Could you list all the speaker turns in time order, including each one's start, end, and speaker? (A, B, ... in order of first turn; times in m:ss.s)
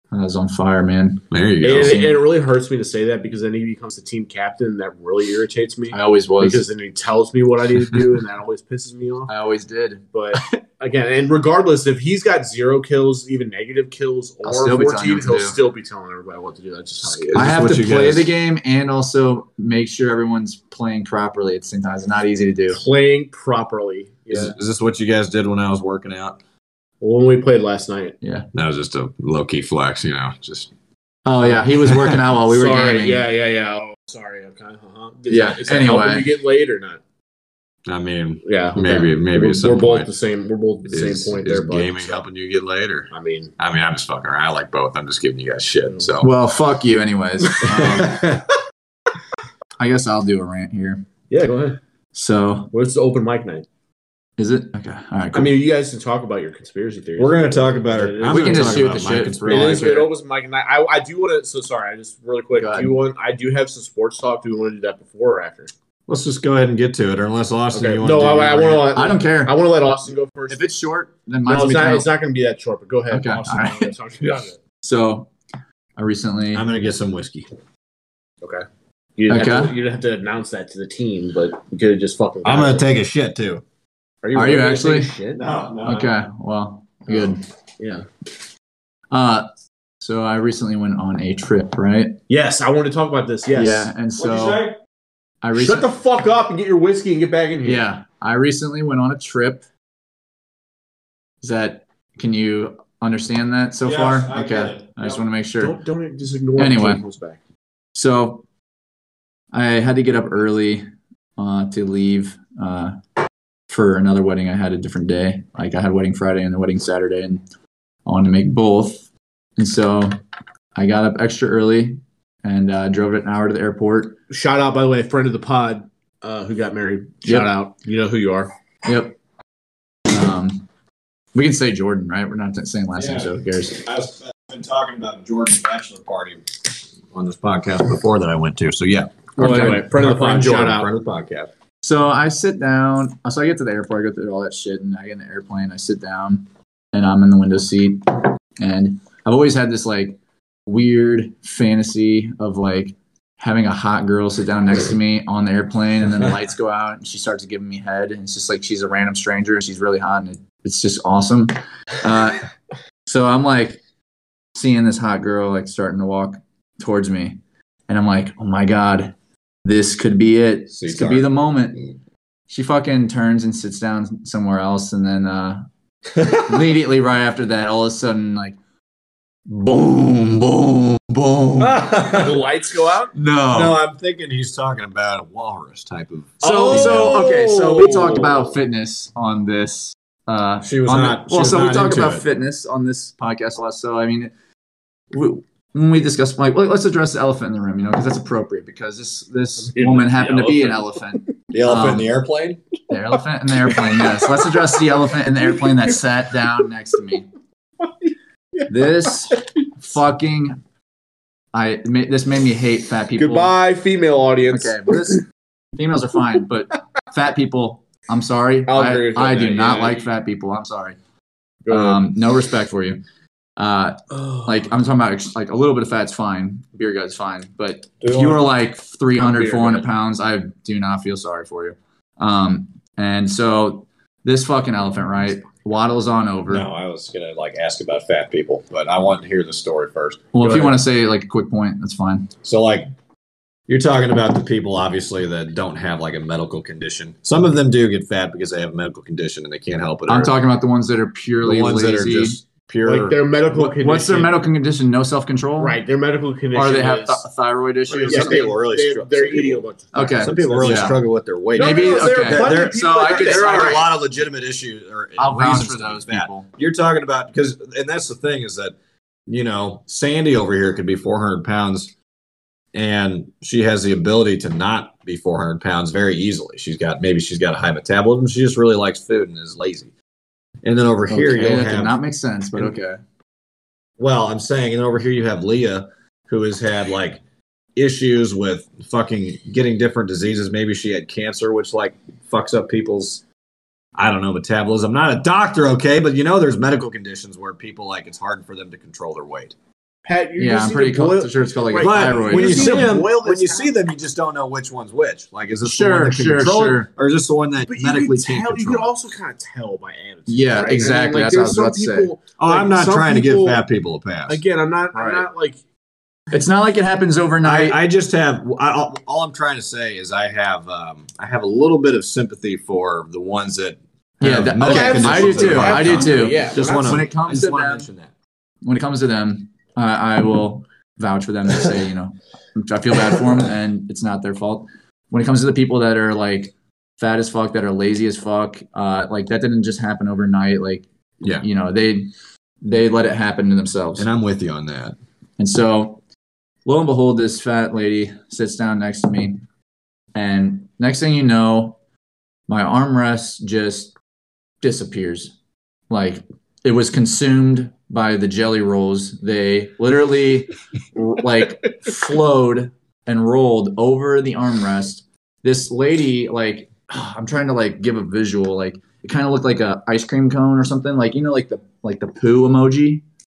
0:00.1-0:02.2 A
0:01.3-0:02.0 B
0:01.6-0:09.3 C
0:05.9-0:06.6 A
0:09.3-0:10.5 A
0:10.1-0:17.6 C
0:14.4-0:15.6 A
0:17.0-0:18.3 B
0:17.3-0:22.8 A
0:22.7-0:24.5 C
0:24.3-0:26.4 B
0:27.0-0:28.2 C
0:28.2-0:28.5 A
0:28.5-0:30.7 B
0:31.2-0:33.2 A
0:31.8-0:32.2 B
0:32.5-0:37.0 C
0:35.3-0:36.3 A
0:37.8-0:40.1 B
0:38.4-0:42.2 C
0:40.9-0:46.3 B
0:43.1-0:43.5 C
0:46.2-0:48.2 A
0:47.6-0:48.5 B
0:49.8-0:51.0 A
0:51.3-0:51.8 C
0:52.1-0:52.7 A
0:52.7-0:53.6 C
0:54.4-0:55.5 A
0:55.3-1:05.7 C
0:57.2-1:00.1 B
0:58.3-1:00.0 A
1:02.6-1:02.9 A
1:06.1-1:08.9 B
1:07.7-1:10.7 C
1:08.9-1:09.6 A
1:10.5-1:12.1 A
1:11.5-1:14.6 C
1:13.1-1:13.9 A
1:14.8-1:15.3 A
1:16.0-1:16.6 A
1:16.5-1:17.5 B
1:19.2-1:22.9 C
1:19.3-1:19.8 A
1:22.4-1:23.6 B
1:24.2-1:25.4 C
1:24.3-1:25.1 A
1:25.3-1:26.1 B
1:25.8-1:27.4 A
1:27.1-1:28.0 C
1:29.1-1:29.5 A
1:30.0-1:32.2 A
1:32.3-1:33.9 C
1:33.5-1:34.6 A
1:34.2-1:34.8 B
1:35.4-1:35.9 A
1:35.5-1:37.8 C
1:37.6-1:39.6 A
1:41.4-1:45.8 A
1:43.8-1:45.0 B
1:45.6-1:47.4 C
1:46.6-1:47.0 A
1:47.9-1:48.4 A
1:49.5-1:50.8 A
1:51.4-1:53.0 A
1:53.7-1:57.4 A
1:58.0-2:00.2 A
2:00.7-2:04.2 A
2:04.3-2:08.5 C
2:07.2-2:07.5 A
2:08.8-2:09.2 A
2:10.1-2:10.6 A
2:11.3-2:13.8 A
2:13.0-2:21.5 B
2:19.4-2:20.9 C
2:19.4-2:19.8 A
2:21.8-2:42.5 A
2:43.0-2:43.8 A
2:44.5-2:49.1 A
2:49.6-2:51.9 A
2:50.7-2:51.3 B
2:52.5-2:55.6 A
2:56.2-2:58.6 A
2:59.5-3:01.8 A
3:01.6-3:02.4 B
3:01.9-3:03.1 C
3:03.1-3:03.8 A
3:03.2-3:07.2 B
3:06.4-3:14.3 A
3:06.4-3:08.4 C
3:10.6-3:12.2 B
3:15.1-3:22.1 A
3:19.6-3:20.9 C
3:21.5-3:22.6 B
3:22.9-3:27.3 A
3:28.7-3:30.6 A
3:31.5-3:33.5 A
3:33.2-3:35.2 C
3:34.5-3:35.2 A
3:35.8-3:41.0 A
3:38.7-3:40.0 C
3:41.6-3:42.1 C
3:41.7-3:43.0 A
3:43.6-3:56.6 A
3:48.0-3:48.4 B
3:49.2-3:49.8 C
3:56.5-4:00.7 B
4:00.3-4:02.3 A
4:02.4-4:02.9 B
4:03.7-4:10.4 B
4:10.1-4:12.4 A
4:11.4-4:13.2 B
4:12.8-4:14.4 C
4:13.5-4:15.8 A
4:15.6-4:17.2 C
4:16.5-4:18.5 A
4:17.9-4:19.6 B
4:18.0-4:21.0 C
4:19.9-4:20.9 A
4:20.2-4:28.8 B
4:21.5-4:23.8 A
4:21.5-4:23.9 C
4:25.2-4:26.5 A
4:29.3-4:31.9 B
4:32.7-4:39.9 B
4:40.6-4:42.0 B
4:41.1-4:43.0 A
4:44.0-4:47.2 B
4:47.8-4:53.2 B
4:54.0-4:59.5 B
5:00.0-5:03.7 C
5:00.4-5:02.9 A
5:01.8-5:08.9 B
5:05.6-5:06.9 A
5:07.6-5:13.6 C
5:10.3-5:12.1 A
5:12.4-5:14.4 B
5:14.3-5:15.6 C
5:14.9-5:15.2 A
5:16.3-5:17.8 A
5:17.4-5:28.1 B
5:24.2-5:27.9 A
5:24.6-5:27.1 C
5:28.6-5:42.1 A
5:41.2-5:41.4 B
5:42.6-5:44.1 A
5:44.0-5:45.0 B
5:45.4-5:46.0 A
5:46.6-5:49.4 A
5:50.1-5:51.8 A
5:52.5-5:53.9 A
5:54.6-5:55.3 A
5:55.9-6:13.0 A